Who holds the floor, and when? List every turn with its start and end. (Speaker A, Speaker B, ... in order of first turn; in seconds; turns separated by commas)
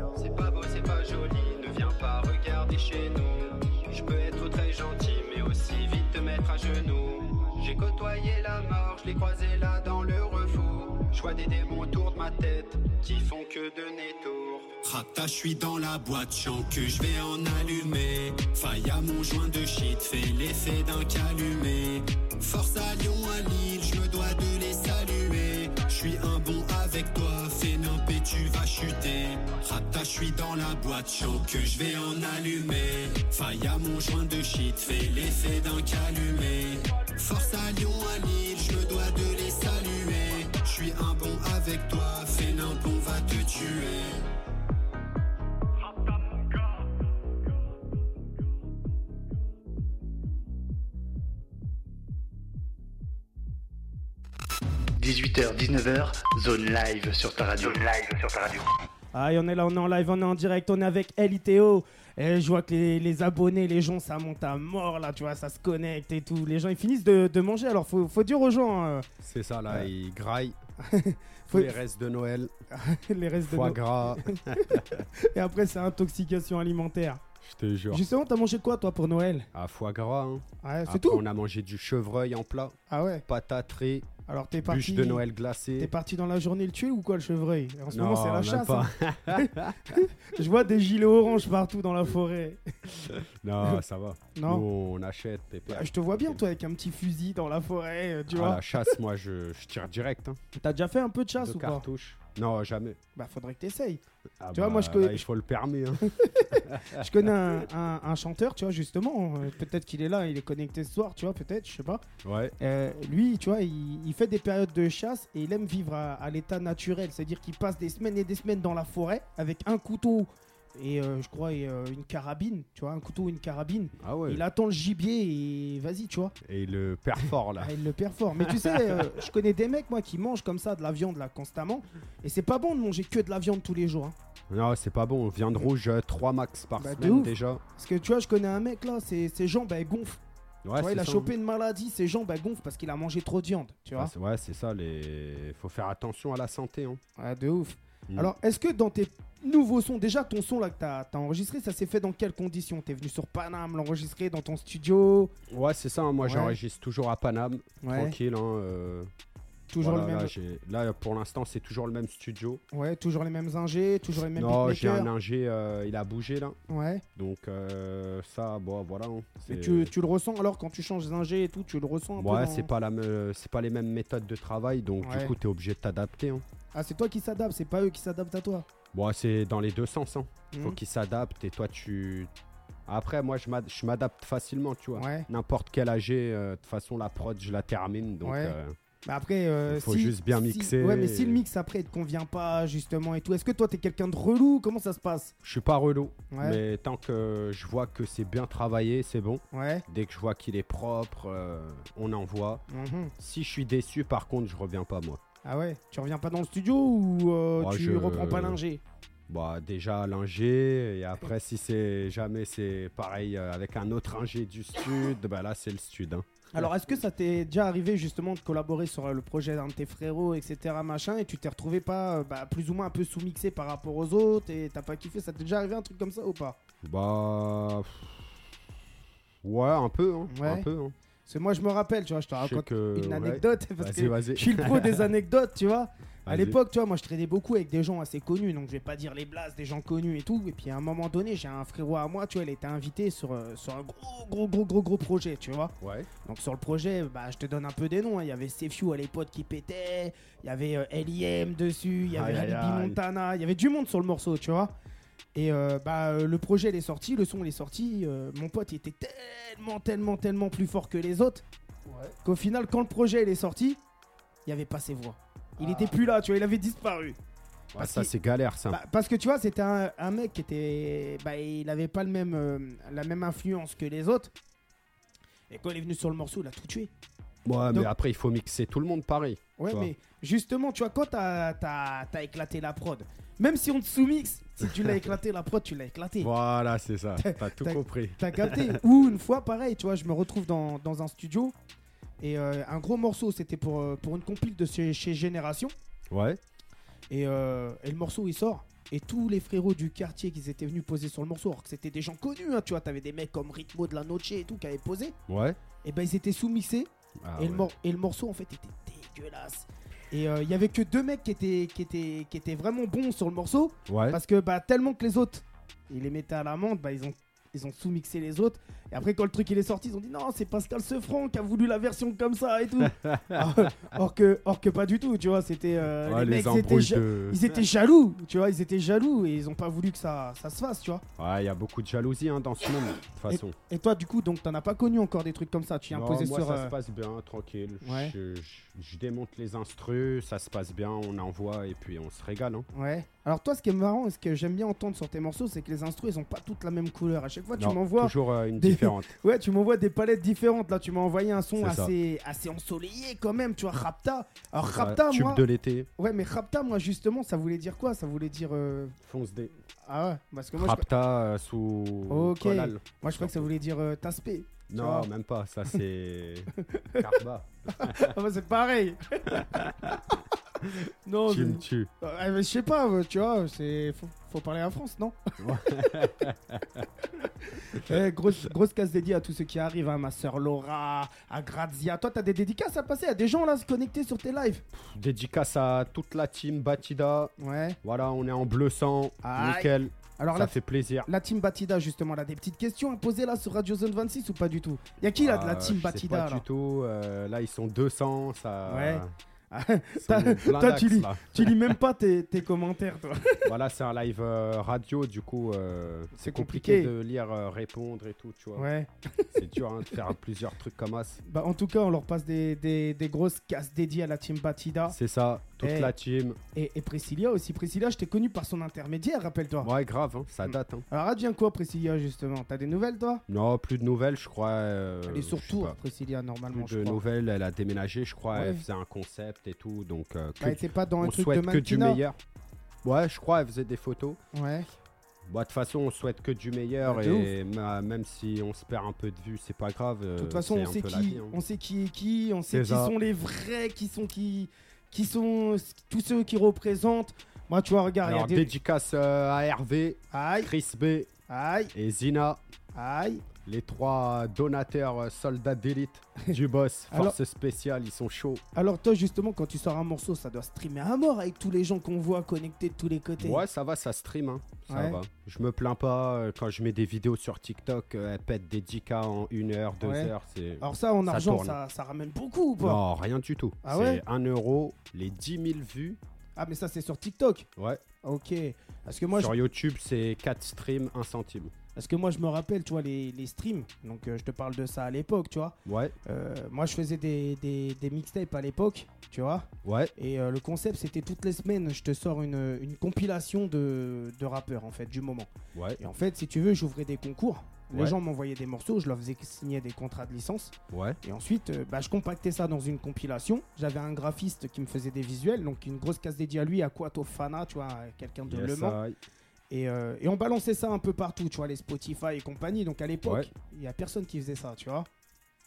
Speaker A: 0.1-14.8, Speaker B: 10.3-10.7, Speaker B: 14.8-44.3, Speaker C: 55.0-58.7, Speaker D: 59.1-69.1, Speaker A: 69.2-70.6, Speaker D: 70.8-71.8, Speaker A: 71.5-72.5, Speaker D: 72.7-77.2, Speaker A: 73.4-75.0, Speaker A: 77.4-78.0, Speaker D: 77.9-79.5, Speaker A: 79.5-84.1, Speaker D: 80.6-81.2, Speaker D: 82.9-83.2, Speaker D: 84.3-85.2, Speaker A: 84.7-85.9, Speaker D: 85.8-92.9, Speaker A: 87.9-90.0, Speaker A: 93.4-96.4, Speaker D: 94.3-94.7, Speaker D: 95.7-98.7, Speaker A: 98.3-100.4, Speaker D: 100.5-101.8, Speaker A: 101.4-103.0, Speaker D: 103.2-104.0, Speaker A: 104.4-107.1, Speaker D: 104.5-105.2, Speaker D: 106.9-112.0, Speaker A: 112.2-112.5, Speaker D: 112.6-126.3, Speaker A: 124.0-124.4, Speaker A: 126.4-127.7, Speaker D: 127.6-134.1, Speaker A: 128.5-129.0, Speaker A: 134.5-137.6, Speaker D: 136.8-140.2, Speaker A: 140.6-141.3, Speaker D: 140.8-144.1, Speaker A: 143.9-147.0, Speaker D: 147.2-155.3, Speaker A: 155.5-159.1, Speaker D: 156.2-156.6, Speaker D: 157.8-158.2, Speaker D: 159.7-160.3, Speaker A: 159.8-162.6, Speaker D: 162.7-165.1, Speaker A: 164.3-166.6, Speaker D: 166.7-167.0, Speaker A: 167.1-169.9, Speaker D: 169.4-172.7, Speaker A: 172.2-176.4, Speaker D: 175.0-175.3, Speaker D: 176.7-178.7, Speaker A: 178.9-182.3, Speaker D: 180.5-180.8, Speaker A: 182.9-188.8, Speaker D: 184.9-185.3, Speaker D: 188.2-188.5, Speaker D: 189.1-195.3, Speaker A: 189.7-191.4, Speaker A: 195.4-202.6, Speaker D: 196.3-196.6, Speaker D: 199.5-199.8, Speaker D: 202.7-203.1, Speaker A: 203.2-205.2, Speaker D: 205.4-208.8, Speaker A: 207.6-208.6, Speaker A: 209.3-216.7, Speaker D: 216.5-226.6, Speaker A: 226.8-228.2, Speaker A: 229.4-230.9, Speaker D: 230.3-230.7, Speaker D: 231.2-254.7, Speaker A: 232.4-235.1, Speaker A: 236.2-236.6, Speaker A: 245.8-246.1, Speaker A: 252.1-253.0, Speaker D: 255.3-261.4, Speaker A: 261.9-262.1, Speaker D: 262.2-263.8, Speaker D: 264.4-267.2, Speaker A: 265.6-265.9, Speaker A: 267.7-268.8, Speaker D: 267.8-268.1, Speaker D: 268.7-274.3, Speaker D: 275.5-276.9, Speaker A: 277.4-279.9, Speaker D: 277.7-277.9, Speaker D: 279.6-286.3, Speaker A: 286.2-288.8, Speaker D: 287.2-291.5, Speaker D: 292.2-295.7, Speaker A: 296.1-296.4, Speaker D: 297.1-305.1, Speaker A: 305.3-305.6, Speaker D: 305.8-331.0, Speaker A: 307.2-307.7, Speaker A: 313.9-314.2, Speaker A: 323.0-323.8, Speaker A: 326.0-327.5, Speaker A: 331.2-333.6, Speaker D: 333.3-336.7, Speaker A: 335.9-342.7, Speaker D: 337.8-338.1, Speaker D: 342.7-355.4, Speaker A: 347.6-349.1, Speaker A: 351.6-351.9, Speaker A: 354.7-355.9, Speaker D: 356.0-359.0, Speaker A: 359.0-359.5, Speaker D: 359.9-360.9, Speaker A: 360.5-363.5, Speaker D: 362.1-365.1, Speaker A: 364.7-368.1, Speaker D: 366.7-367.1, Speaker D: 367.7-369.6, Speaker A: 369.3-370.0, Speaker D: 370.8-375.4, Speaker A: 371.3-371.9, Speaker A: 375.4-376.8, Speaker D: 377.2-384.6, Speaker A: 384.7-391.1, Speaker D: 387.4-387.8, Speaker D: 389.2-396.4, Speaker A: 395.2-399.1, Speaker D: 398.7-403.5, Speaker A: 400.0-401.6, Speaker A: 403.4-408.7, Speaker D: 406.2-406.9, Speaker D: 408.6-409.4, Speaker A: 409.3-411.2, Speaker D: 411.2-414.9, Speaker A: 414.9-416.4, Speaker D: 415.6-415.9, Speaker D: 416.5-419.7, Speaker A: 419.6-420.8, Speaker D: 420.4-423.2, Speaker A: 423.3-425.8, Speaker D: 425.1-427.0, Speaker A: 426.5-432.2, Speaker D: 428.3-428.6, Speaker D: 430.4-432.0, Speaker A: 432.8-434.2, Speaker D: 434.3-434.7, Speaker A: 435.3-441.4, Speaker D: 436.8-437.3, Speaker D: 440.2-448.5, Speaker A: 442.5-442.9, Speaker A: 448.0-451.1, Speaker D: 450.1-450.5, Speaker D: 451.3-451.7, Speaker A: 451.7-452.4, Speaker D: 452.7-453.2, Speaker A: 453.4-458.4, Speaker D: 456.9-457.2, Speaker D: 458.5-463.4, Speaker A: 463.2-471.6, Speaker D: 464.7-465.0, Speaker D: 469.8-472.8, Speaker A: 472.6-476.0, Speaker D: 473.6-474.0, Speaker D: 476.4-477.5, Speaker D: 478.0-479.3, Speaker A: 479.1-481.5, Speaker D: 481.7-508.8, Speaker A: 485.6-485.9, Speaker A: 489.6-489.9, Speaker A: 495.5-495.8, Speaker A: 500.7-501.0, Speaker A: 508.3-508.9, Speaker D: 509.5-514.9